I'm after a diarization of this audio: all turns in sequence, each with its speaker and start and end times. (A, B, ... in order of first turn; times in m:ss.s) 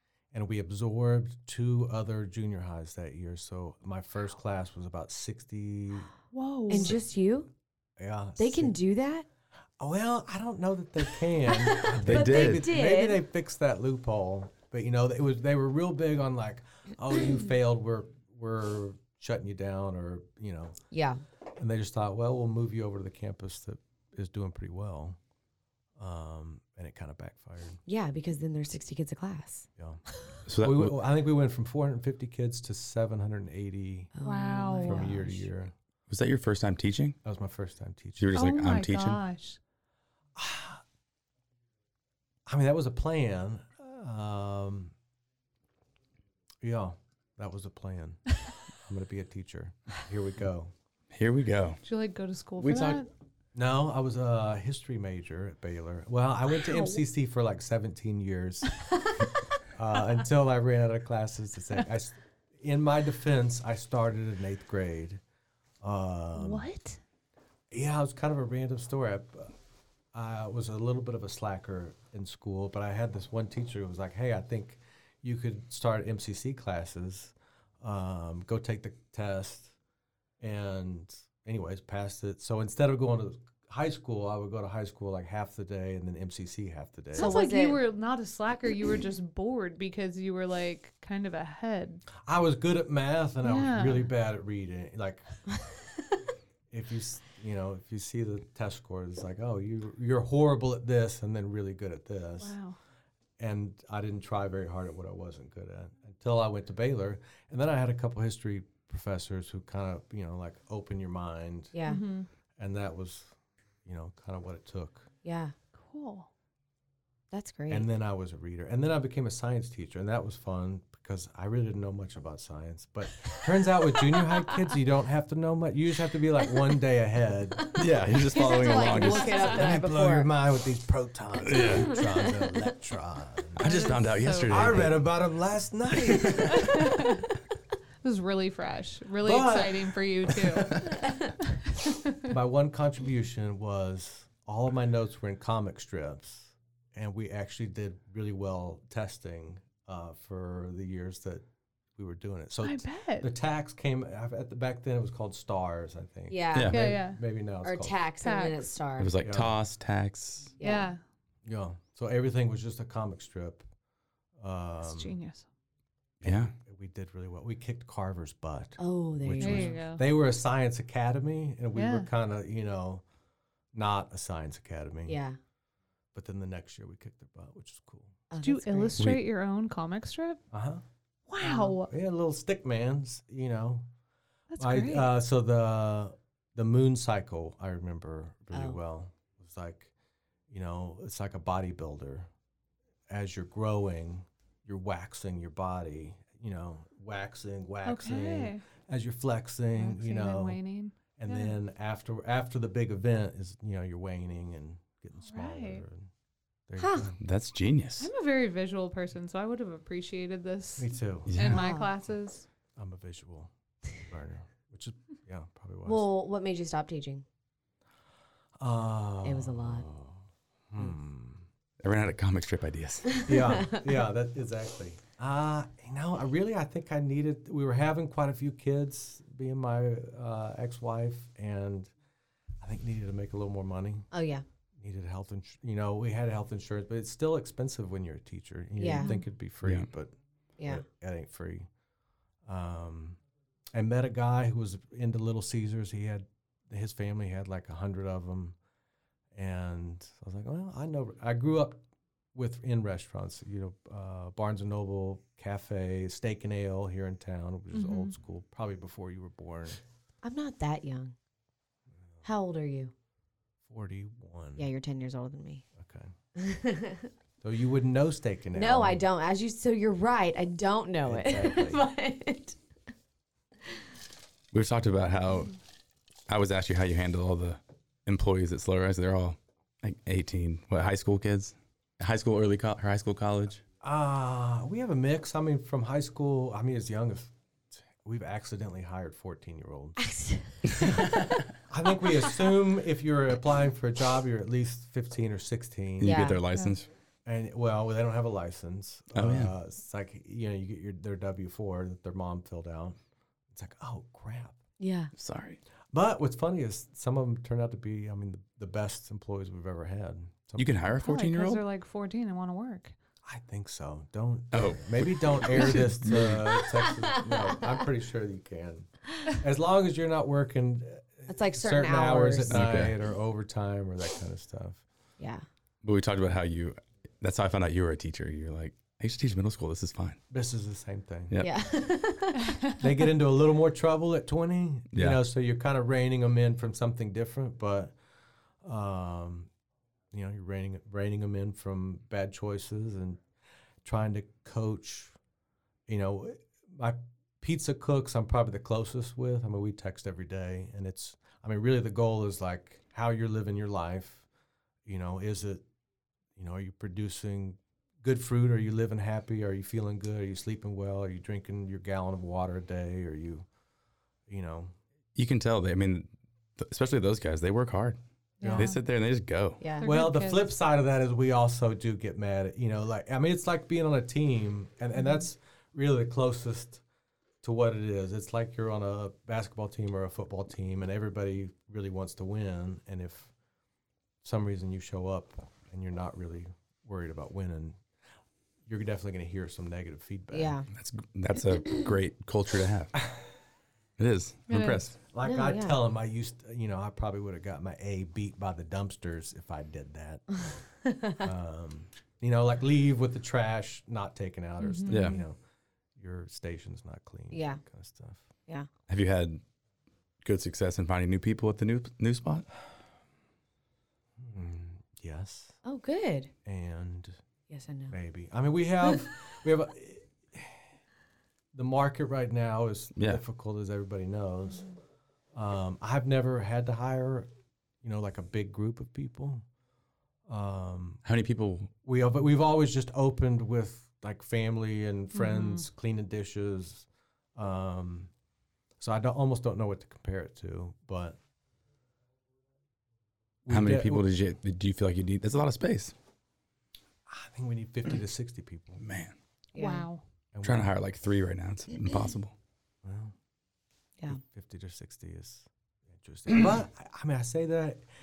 0:00.3-0:06.1 A
0:06.3-0:07.0 B
0:06.7-0:07.5 C
0:08.0-0:08.8 A
0:08.4-0:09.2 C
0:09.8-0:20.8 A
0:11.7-0:13.2 C
0:12.0-0:12.7 D
0:20.9-0:21.2 C
0:21.6-0:25.2 A
0:26.0-0:27.8 A
0:27.9-0:29.7 C
0:30.5-0:31.0 D
0:30.6-0:34.1 A
0:34.1-0:35.4 C
0:34.2-0:35.1 B
0:34.8-0:35.7 A
0:36.1-0:37.2 D
0:37.2-0:38.3 A
0:38.2-0:39.2 D
0:38.3-0:39.6 B
0:40.4-0:40.8 A
0:42.4-0:44.9 A
0:46.6-0:50.7 A
0:51.1-0:51.8 D
0:51.8-0:53.1 B
0:52.6-0:53.0 D
0:53.5-0:59.1 A
0:56.6-0:57.0 B
0:59.7-1:05.2 A
1:05.8-1:06.7 A
1:06.3-1:07.0 B
1:07.7-1:09.5 A
1:10.1-1:19.7 A
1:20.4-1:27.3 A
1:27.1-1:27.8 C
1:27.1-1:32.0 B
1:32.2-1:35.4 A
1:33.4-1:34.1 B
1:36.7-1:42.6 A
1:42.4-1:42.8 B
1:43.4-1:51.7 A
1:51.7-1:52.0 C
1:51.8-1:52.3 B
1:52.6-1:53.3 A
1:53.8-1:55.1 A
1:55.2-1:55.5 C
1:55.8-1:56.3 B
1:57.3-1:57.9 C
1:57.7-2:07.8 A
2:07.7-2:10.3 C
2:07.7-2:09.6 D
2:08.9-2:13.6 A
2:09.3-2:09.6 B
2:11.4-2:11.9 D
2:13.6-2:15.0 D
2:13.6-2:14.9 B
2:14.5-2:16.8 A
2:16.1-2:16.6 D
2:16.2-2:17.3 B
2:18.0-2:20.8 B
2:19.2-2:20.9 A
2:22.3-2:31.4 A
2:32.0-2:38.0 A
2:32.6-2:33.3 B
2:36.3-2:36.8 C
2:36.7-2:37.2 B
2:37.6-2:39.2 C
2:38.2-2:38.6 B
2:39.0-2:40.5 D
2:39.2-2:39.5 A
2:40.6-2:40.9 C
2:40.6-2:41.0 B
2:41.4-2:43.6 A
2:44.4-2:45.2 A
2:44.8-2:45.4 B
2:46.2-2:46.5 D
2:46.2-2:53.0 A
2:48.8-2:49.8 C
2:49.4-2:50.0 B
2:51.7-2:52.1 B
2:53.7-2:55.2 A
2:55.1-2:55.4 C
2:56.1-2:58.2 A
2:58.3-2:59.0 C
2:58.4-3:00.4 B
2:59.0-2:59.2 D
3:00.5-3:00.8 A
3:01.3-3:01.9 B
3:01.4-3:03.9 A
3:04.5-3:05.1 B
3:04.6-3:09.9 A
3:08.5-3:08.8 C
3:10.5-3:12.3 A
3:13.1-3:20.6 A
3:17.8-3:18.6 B
3:19.8-3:21.6 B
3:21.1-3:26.1 A
3:25.2-3:25.8 B
3:26.7-3:27.2 A
3:26.8-3:27.1 C
3:27.2-3:28.1 D
3:28.0-3:32.4 B
3:30.8-3:31.4 A
3:31.3-3:31.6 D
3:31.5-3:31.9 C
3:32.8-3:36.1 A
3:35.8-3:37.2 C
3:38.6-3:41.4 A
3:39.2-3:39.8 C
3:41.8-3:43.3 D
3:43.2-3:51.9 A
3:43.3-3:43.8 C
3:52.6-3:54.1 A
3:54.1-3:54.4 C
3:54.8-4:01.7 A
3:58.8-3:59.2 C
3:58.9-3:59.2 B
3:59.6-3:59.9 D
4:00.6-4:00.8 C
4:02.4-4:03.2 A
4:03.7-4:08.6 A
4:09.3-4:11.8 A
4:12.3-4:19.8 A
4:17.7-4:18.1 B
4:20.2-4:21.1 C
4:22.2-4:22.9 C
4:23.7-4:24.6 A
4:24.6-4:25.6 C
4:25.8-4:26.1 A
4:26.4-4:27.1 C
4:27.4-4:29.0 A
4:28.5-4:32.6 C
4:31.0-4:31.8 A
4:34.5-4:35.5 D
4:36.3-4:43.6 D
4:43.8-4:47.3 A
4:47.8-4:50.1 A
4:50.0-4:51.0 C
4:50.7-4:51.3 D
4:51.7-4:56.2 A
4:56.0-4:56.9 D
4:56.0-4:56.4 C
4:57.2-5:03.0 A
4:59.1-4:59.5 D
5:03.5-5:04.6 A
5:04.8-5:05.1 C
5:05.2-5:05.6 D
5:05.9-5:10.8 A
5:10.6-5:11.6 D
5:11.0-5:13.0 B
5:13.2-5:24.8 A
5:14.5-5:16.6 D
5:17.0-5:17.7 C
5:21.3-5:22.7 C
5:22.5-5:23.0 D
5:25.2-5:25.4 C
5:25.8-5:30.2 D
5:30.3-5:31.4 A
5:31.4-5:32.6 C
5:32.8-5:37.9 A
5:34.9-5:35.2 D
5:38.6-5:39.5 A
5:40.1-5:43.2 A
5:43.8-5:45.1 A
5:45.9-5:54.2 A
5:54.8-5:55.6 A
5:56.4-6:03.4 A
6:04.3-6:04.7 A
6:05.2-6:08.0 D
6:08.4-6:08.8 B
6:08.4-6:08.7 A
6:08.5-6:09.6 D
6:09.6-6:09.9 C
6:09.8-6:10.5 B
6:09.8-6:16.8 A
6:15.0-6:15.2 B
6:17.4-6:23.3 A
6:24.2-6:27.8 A
6:28.6-6:30.6 A
6:30.3-6:30.7 C
6:30.7-6:32.9 D
6:34.0-6:35.0 D
6:34.5-6:34.9 B
6:35.1-6:40.4 A
6:35.2-6:35.8 C
6:40.8-6:41.2 C
6:41.2-6:45.4 A
6:44.6-6:45.2 B
6:44.9-6:45.2 D
6:46.0-6:48.2 A
6:47.3-6:47.6 C
6:48.9-6:49.4 D
6:50.2-6:52.5 D
6:54.2-6:55.6 A
6:55.6-6:56.3 C
6:56.4-6:57.2 A
6:57.5-6:58.0 C
6:57.9-7:00.6 A
7:01.5-7:04.6 A
7:03.0-7:03.2 D
7:05.3-7:07.3 A
7:07.8-7:09.4 A
7:10.3-7:11.0 A
7:11.0-7:11.7 D
7:11.8-7:18.1 A
7:15.1-7:15.6 B
7:18.8-7:21.2 A
7:23.4-7:24.0 A
7:23.5-7:25.9 D
7:27.1-7:28.8 A
7:28.8-7:29.1 D
7:29.5-7:29.9 C
7:29.6-7:30.0 B
7:30.3-7:30.7 A
7:30.4-7:32.3 D
7:32.8-7:33.1 A
7:34.1-7:37.8 A